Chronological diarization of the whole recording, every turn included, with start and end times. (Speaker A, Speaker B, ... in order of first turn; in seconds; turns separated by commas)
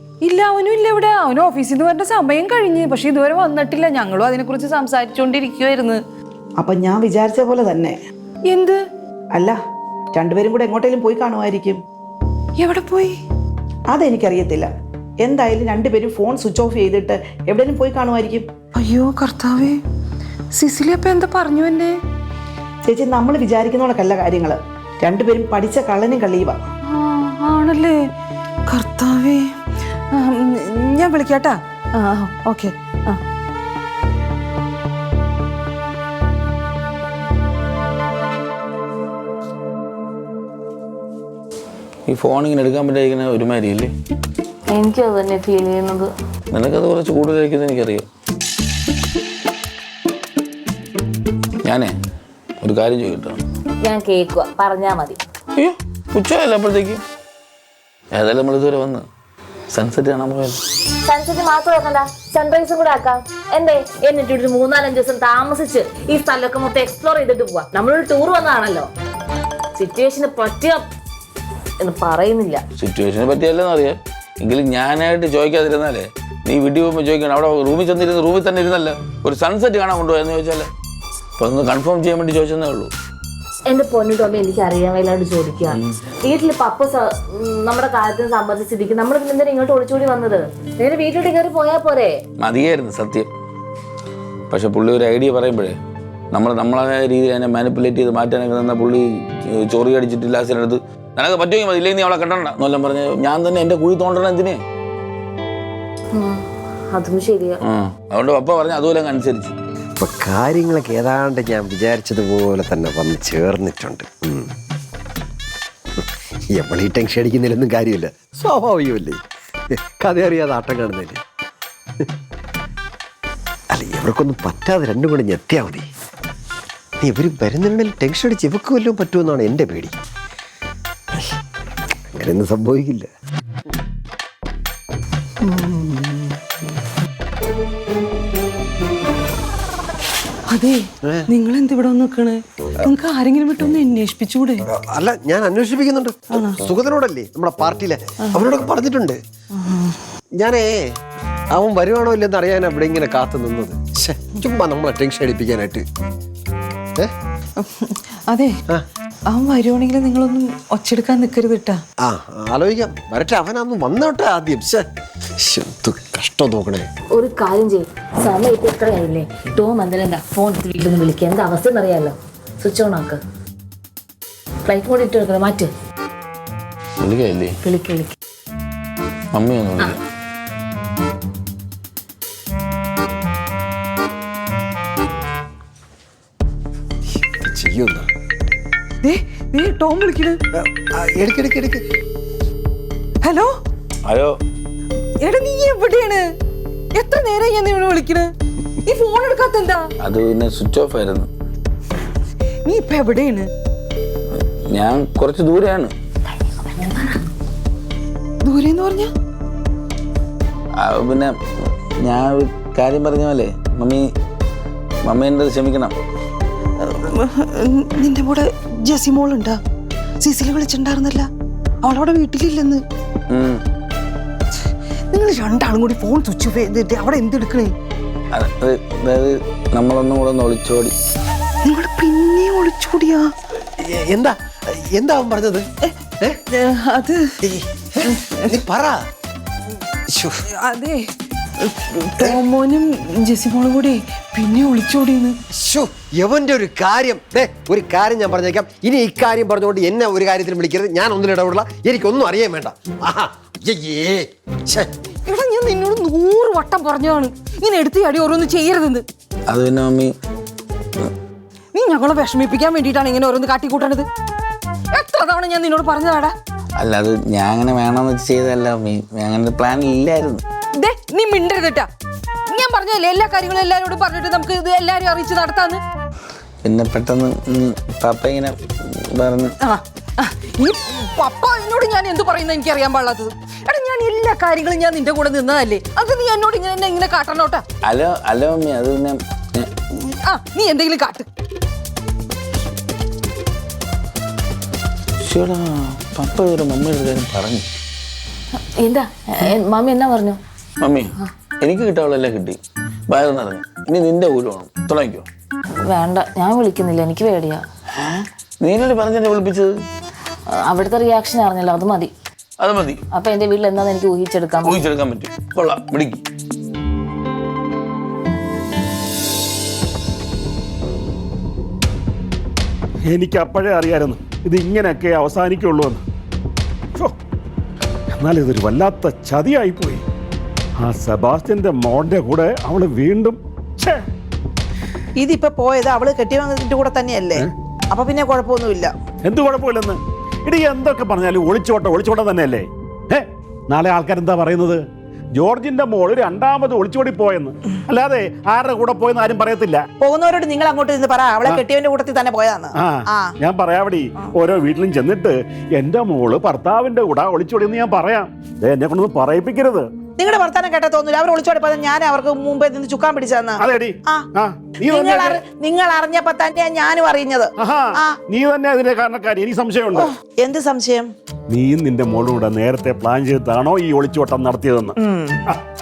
Speaker A: 0.2-6.0, Speaker B: 6.6-8.0, Speaker A: 8.5-8.8, Speaker B: 10.2-11.8, Speaker A: 12.6-13.2, Speaker B: 13.9-18.5, Speaker A: 18.8-19.8, Speaker A: 20.6-21.9, Speaker B: 22.9-26.6, Speaker A: 26.9-28.0, Speaker A: 28.7-29.5, Speaker A: 30.1-33.2, Speaker C: 42.1-43.9, Speaker D: 44.7-46.1, Speaker C: 46.5-48.1, Speaker C: 51.6-51.9, Speaker C: 52.6-53.4, Speaker D: 53.8-55.2, Speaker C: 55.6-57.0, Speaker C: 58.1-59.1, Speaker C: 59.7-60.6, Speaker D: 61.1-68.9, Speaker D: 69.8-70.8, Speaker D: 71.8-72.6, Speaker C: 72.8-80.7, Speaker C: 81.4-82.9, Speaker D: 83.7-92.2, Speaker C: 92.4-93.3, Speaker C: 94.5-95.8, Speaker C: 96.3-104.6, Speaker D: 106.1-107.6, Speaker C: 107.6-109.5, Speaker E: 110.0-114.5, Speaker E: 116.0-121.2, Speaker E: 123.7-125.9, Speaker E: 127.0-130.0, Speaker E: 132.1-133.1, Speaker A: 135.7-136.0, Speaker A: 140.5-144.7, Speaker E: 141.0-141.3, Speaker E: 144.6-149.2, Speaker A: 146.3-146.6, Speaker A: 149.6-150.0, Speaker E: 150.4-150.9, Speaker E: 151.5-155.8, Speaker A: 157.6-158.6, Speaker A: 159.3-161.8, Speaker E: 162.0-164.9, Speaker E: 165.4-166.9, Speaker D: 167.2-173.2, Speaker D: 174.7-175.7, Speaker C: 177.0-177.6, Speaker D: 177.6-178.2, Speaker C: 179.3-180.0, Speaker E: 187.2-188.1, Speaker A: 189.0-190.4, Speaker E: 190.5-191.8, Speaker A: 193.2-193.5, Speaker C: 194.1-194.4, Speaker A: 195.2-196.3, Speaker A: 196.9-198.3, Speaker A: 198.8-199.9, Speaker C: 200.0-201.3, Speaker A: 202.7-203.5, Speaker C: 204.7-205.9, Speaker A: 208.4-209.1, Speaker C: 210.8-214.1, Speaker C: 215.1-215.9, Speaker A: 216.8-219.6, Speaker A: 220.2-221.3, Speaker A: 221.8-222.8, Speaker C: 223.3-223.6, Speaker A: 225.1-227.7, Speaker C: 228.3-230.9, Speaker A: 231.6-233.3, Speaker E: 233.8-235.7, Speaker A: 236.5-237.4, Speaker E: 237.4-239.0, Speaker A: 238.1-238.5, Speaker E: 240.1-240.4, Speaker A: 240.5-241.1, Speaker A: 241.6-245.4, Speaker E: 245.5-254.9, Speaker A: 255.2-259.0, Speaker C: 259.5-260.1, Speaker A: 261.7-264.1, Speaker A: 264.9-266.3, Speaker C: 266.8-270.4, Speaker A: 270.8-271.9, Speaker A: 272.5-275.8, Speaker C: 276.6-279.6, Speaker A: 279.6-287.6, Speaker C: 287.8-289.7, Speaker A: 289.9-291.3, Speaker C: 295.2-297.7, Speaker D: 298.8-300.4, Speaker C: 300.8-302.6, Speaker C: 303.1-305.3, Speaker D: 305.8-307.6, Speaker C: 307.9-309.8, Speaker D: 310.5-312.1, Speaker C: 312.6-313.0, Speaker D: 313.1-314.8, Speaker C: 314.6-316.2, Speaker F: 323.1-326.0, Speaker F: 328.1-330.0, Speaker F: 330.8-334.0, Speaker B: 335.2-338.9, Speaker F: 339.2-344.8, Speaker F: 345.4-349.9, Speaker B: 350.0-353.4, Speaker F: 352.8-359.9, Speaker B: 360.2-364.3, Speaker F: 363.6-365.4, Speaker B: 364.8-368.2, Speaker F: 367.6-370.1, Speaker B: 370.0-371.1, Speaker F: 371.5-375.0, Speaker B: 375.0-375.5